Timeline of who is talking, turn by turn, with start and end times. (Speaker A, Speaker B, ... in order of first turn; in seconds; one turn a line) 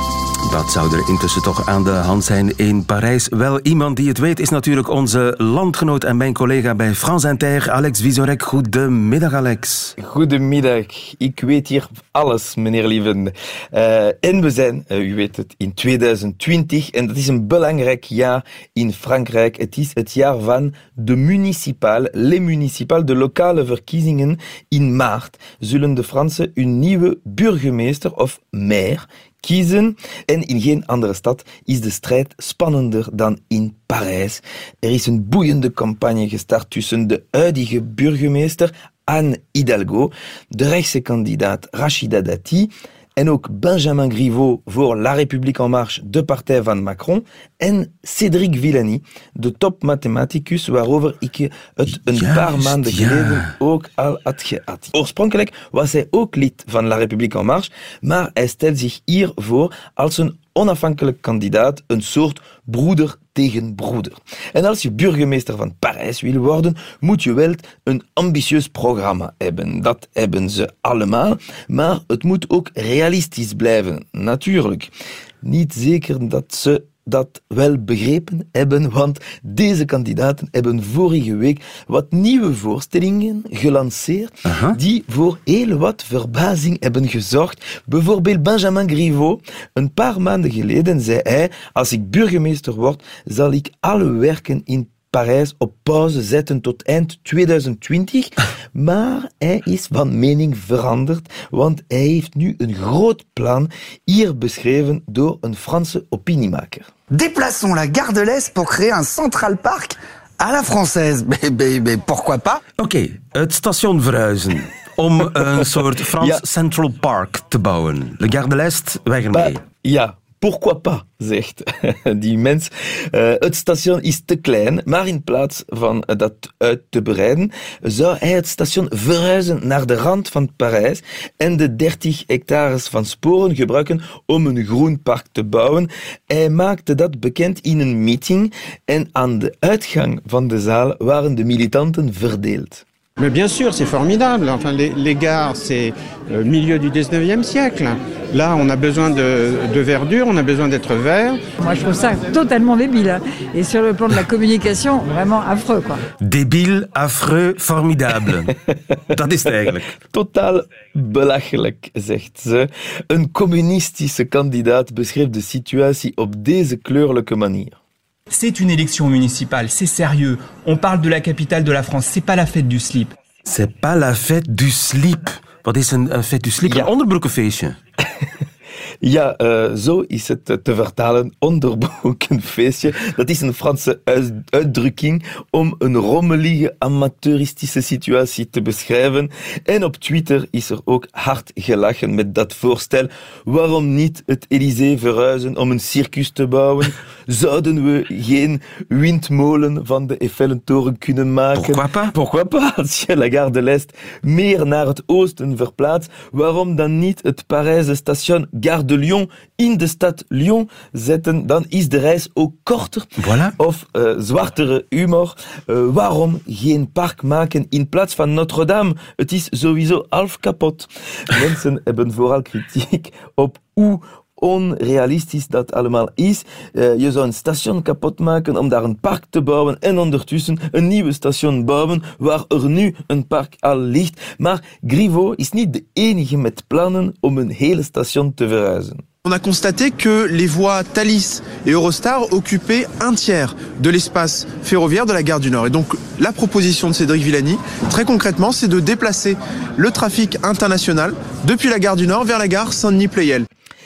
Speaker A: 0.4-9.9
Speaker B: 10.0-74.9
Speaker A: 52.1-53.5
Speaker B: 75.4-106.9
Speaker A: 84.5-84.8
Speaker C: 107.1-112.6
Speaker A: 112.8-119.6
Speaker B: 116.2-116.4
Speaker B: 119.3-142.8
Speaker D: 143.2-151.5
Speaker E: 151.6-156.0
Speaker A: 156.2-158.5
Speaker A: 159.1-159.9
Speaker B: 160.1-167.8
Speaker F: 168.3-173.1
Speaker A: 173.5-177.8
Speaker B: 179.0-239.1
Speaker A: 201.6-202.1
Speaker A: 213.2-213.6
Speaker G: 239.2-253.5